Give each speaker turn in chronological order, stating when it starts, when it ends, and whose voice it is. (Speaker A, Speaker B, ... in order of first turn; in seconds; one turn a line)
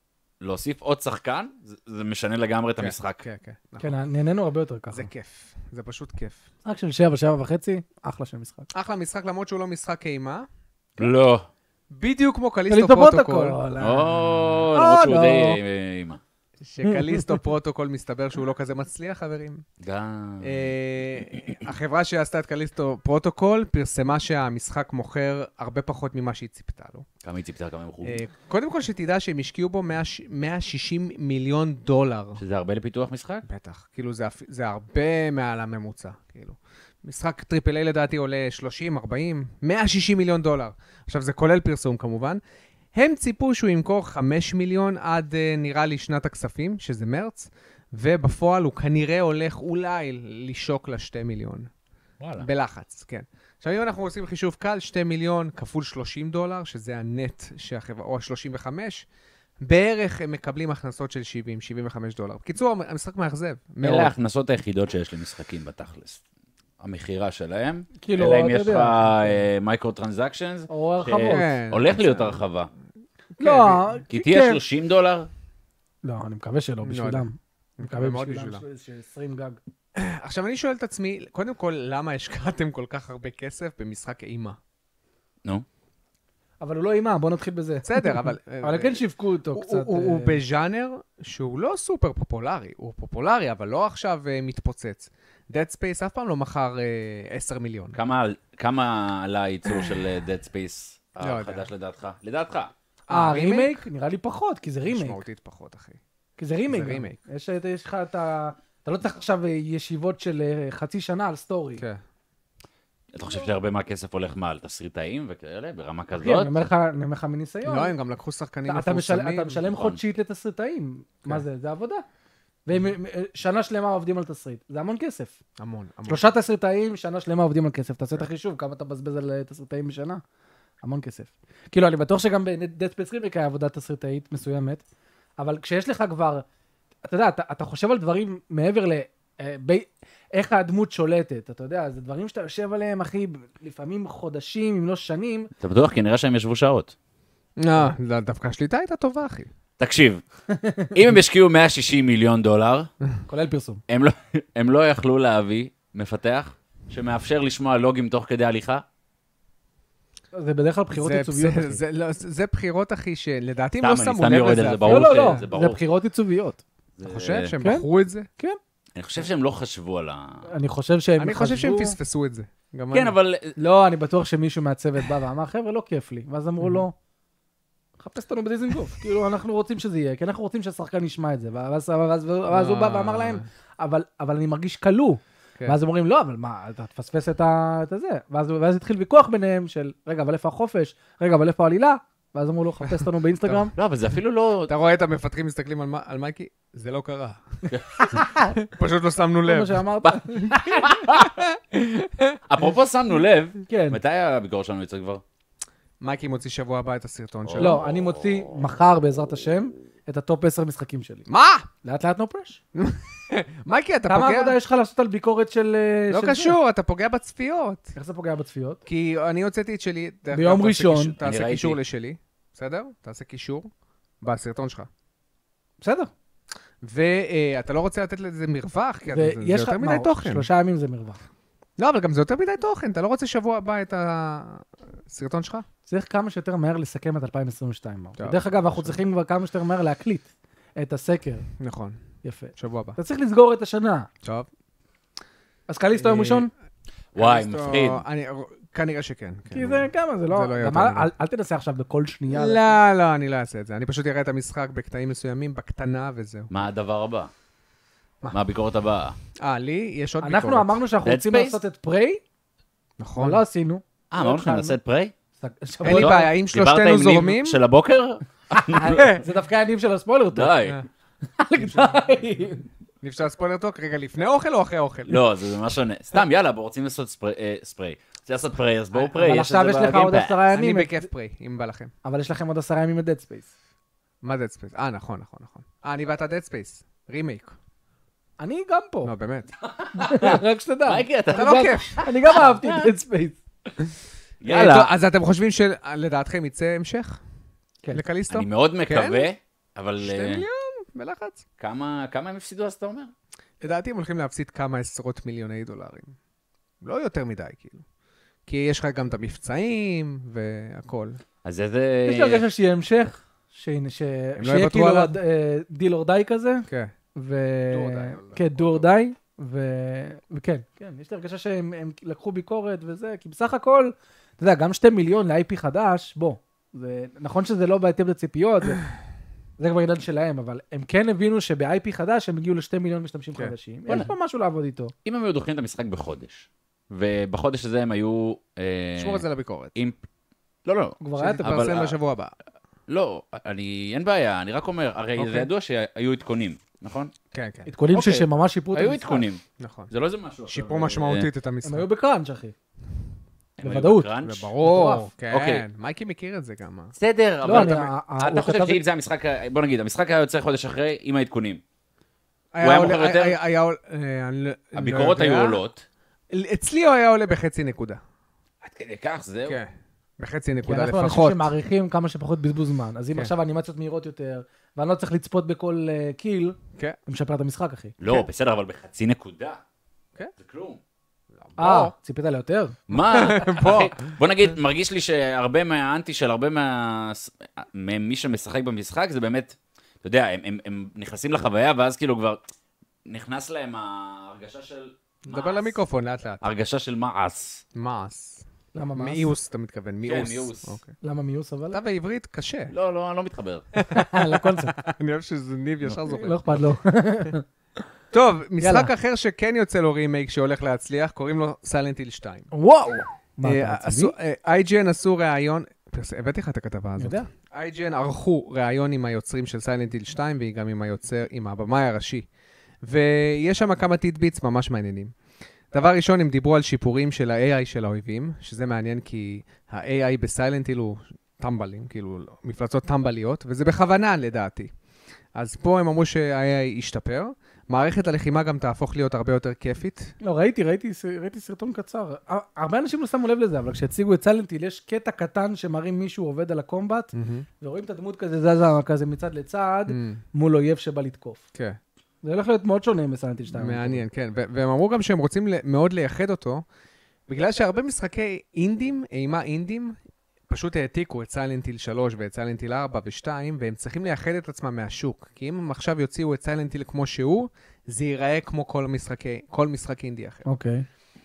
Speaker A: 0.4-3.2
Speaker B: 2.8-4.0
Speaker C: 3.8-5.1
Speaker B: 4.9-6.5
Speaker C: 6.7-8.7
Speaker B: 8.7-10.5
Speaker A: 11.0-11.5
Speaker B: 11.9-13.6
Speaker C: 12.7-15.6
Speaker A: 13.8-16.2
Speaker B: 16.6-19.6
Speaker C: 16.8-17.4
Speaker A: 19.8-20.7
Speaker B: 20.4-27.1
Speaker A: 27.2-28.2
Speaker B: 28.0-32.4
Speaker A: 32.4-33.5
Speaker B: 33.5-42.4
Speaker B: 42.9-51.7
Speaker A: 52.2-52.5
Speaker B: 52.4-59.1
Speaker B: 59.6-64.1
Speaker A: 63.8-66.2
Speaker A: 66.8-72.7
Speaker C: 68.0-69.4
Speaker C: 70.7-71.5
Speaker B: 71.2-72.4
Speaker B: 73.4-73.8
Speaker C: 73.4-74.6
Speaker A: 74.1-75.3
Speaker C: 76.0-79.6
Speaker B: 76.8-77.3
Speaker B: 77.8-78.6
Speaker B: 80.0-84.6
Speaker C: 86.6-90.4
Speaker B: 87.8-98.0
Speaker A: 97.9-102.7
Speaker B: 101.2-101.7
Speaker B: 103.1-103.8
Speaker C: 103.1-105.2
Speaker B: 104.9-106.0
Speaker C: 106.4-111.8
Speaker B: 106.7-107.2
Speaker A: 113.1-116.5
Speaker C: 116.2-117.9
Speaker B: 117.7-119.6
Speaker C: 118.7-122.0
Speaker A: 119.7-120.0
Speaker C: 122.7-125.4
Speaker B: 125.6-126.2
Speaker C: 126.1-130.2
Speaker C: 130.8-134.8
Speaker C: 135.4-136.4
Speaker C: 137.1-145.5
Speaker A: 145.6-146.9
Speaker B: 147.6-149.5
Speaker A: 149.8-150.2
Speaker C: 150.5-150.9
Speaker A: 150.9-152.9
Speaker C: 153.3-153.8
Speaker A: 153.9-158.8
Speaker C: 160.3-161.8
Speaker B: 160.9-165.4
Speaker A: 163.8-165.8
Speaker C: 164.9-166.6
Speaker A: 167.0-167.5
Speaker B: 167.0-168.3
Speaker A: 169.0-170.5
Speaker C: 170.5-172.0
Speaker B: 171.2-173.2
Speaker A: 172.9-173.5
Speaker C: 173.6-176.9
Speaker C: 178.0-193.7
Speaker B: 182.5-183.5
Speaker A: 193.7-194.7
Speaker B: 194.7-197.6
Speaker A: 197.7-198.3
Speaker B: 198.6-199.8
Speaker C: 199.4-200.8
Speaker A: 200.0-201.4
Speaker B: 201.3-202.4
Speaker A: 202.5-205.2
Speaker C: 203.7-204.0
Speaker B: 206.0-207.8
Speaker A: 207.5-208.6
Speaker C: 207.6-211.3
Speaker B: 211.3-211.7
Speaker C: 211.8-212.6
Speaker B: 212.8-214.6
Speaker C: 214.1-216.6
Speaker B: 216.1-217.9
Speaker C: 218.0-218.8
Speaker B: 218.8-223.7
Speaker C: 220.3-221.2
Speaker A: 221.2-221.8
Speaker B: 224.2-224.9
Speaker C: 225.8-226.1
Speaker B: 226.8-230.5
Speaker C: 229.1-231.2
Speaker B: 231.8-235.7
Speaker C: 235.9-241.5
Speaker B: 238.2-239.0
Speaker B: 241.6-242.0
Speaker C: 242.2-244.1
Speaker B: 242.6-243.0
Speaker B: 244.2-244.5
Speaker C: 245.7-246.5
Speaker B: 245.9-246.5
Speaker A: 247.1-248.0
Speaker B: 247.2-251.1
Speaker C: 249.5-252.7
Speaker B: 252.3-256.5
Speaker A: 256.5-257.3
Speaker A: 258.3-259.2
Speaker B: 259.4-260.8
Speaker C: 260.2-262.2
Speaker A: 261.0-261.6
Speaker B: 263.0-263.4
Speaker C: 263.2-264.8
Speaker A: 264.1-265.1
Speaker C: 265.4-266.3
Speaker B: 265.8-267.6
Speaker A: 265.9-269.1
Speaker C: 268.5-270.5
Speaker B: 268.8-269.2
Speaker A: 270.3-270.8
Speaker C: 271.4-272.7
Speaker B: 271.7-272.0
Speaker B: 273.0-275.2
Speaker A: 275.1-280.4
Speaker C: 278.9-281.1
Speaker B: 280.5-281.9
Speaker C: 282.0-283.5
Speaker B: 284.2-287.6
Speaker C: 288.4-289.1
Speaker B: 289.0-289.5
Speaker A: 289.7-292.9
Speaker C: 289.9-293.4
Speaker B: 291.3-292.0
Speaker A: 294.4-294.9
Speaker B: 294.5-297.2
Speaker B: 297.9-299.3
Speaker A: 298.3-300.4
Speaker B: 300.0-301.4
Speaker A: 301.6-303.1
Speaker B: 303.6-306.2
Speaker B: 306.8-307.8
Speaker B: 308.5-311.2
Speaker A: 311.4-312.4
Speaker C: 312.1-328.8
Speaker B: 314.4-315.1
Speaker B: 316.7-316.9
Speaker B: 317.7-318.9
Speaker C: 329.6-334.9
Speaker A: 335.1-340.0
Speaker B: 339.0-339.8
Speaker A: 340.6-342.0
Speaker C: 341.0-341.6
Speaker B: 341.2-342.3
Speaker A: 342.9-347.1
Speaker C: 345.2-345.5
Speaker B: 347.3-347.7
Speaker C: 347.7-349.3
Speaker A: 347.9-351.3
Speaker B: 349.6-349.9
Speaker B: 350.5-351.9
Speaker C: 351.6-352.5
Speaker A: 353.6-354.5
Speaker C: 353.6-355.1
Speaker B: 354.2-356.9
Speaker A: 355.3-355.6
Speaker A: 357.0-361.6
Speaker C: 357.4-358.8
Speaker B: 357.5-357.8
Speaker B: 362.5-365.6
Speaker A: 362.6-363.4
Speaker A: 364.8-365.8
Speaker B: 366.3-368.0
Speaker A: 368.6-369.6
Speaker B: 369.5-371.5
Speaker C: 370.7-377.9
Speaker A: 378.0-379.6
Speaker A: 380.4-380.8
Speaker B: 381.4-381.9
Speaker C: 381.6-382.8
Speaker A: 382.9-392.4
Speaker B: 382.9-383.9
Speaker A: 393.1-395.8
Speaker B: 395.3-396.4
Speaker A: 396.4-397.6
Speaker B: 397.7-400.9
Speaker C: 398.8-399.3
Speaker A: 400.1-400.8
Speaker C: 401.0-401.8
Speaker B: 401.7-402.7
Speaker A: 402.7-403.7
Speaker B: 403.8-406.6
Speaker C: 403.9-404.8
Speaker C: 406.0-407.4
Speaker B: 408.1-412.5
Speaker C: 408.6-408.9
Speaker C: 412.5-414.1
Speaker B: 413.4-422.3
Speaker C: 417.0-417.3
Speaker B: 422.8-425.1
Speaker B: 425.7-434.7
Speaker B: 435.3-440.1
Speaker C: 440.2-451.4
Speaker B: 447.1-447.5
Speaker B: 449.9-450.2
Speaker C: 452.2-454.0
Speaker B: 453.5-456.6
Speaker B: 457.3-460.0
Speaker B: 460.5-470.4
Speaker C: 470.4-470.9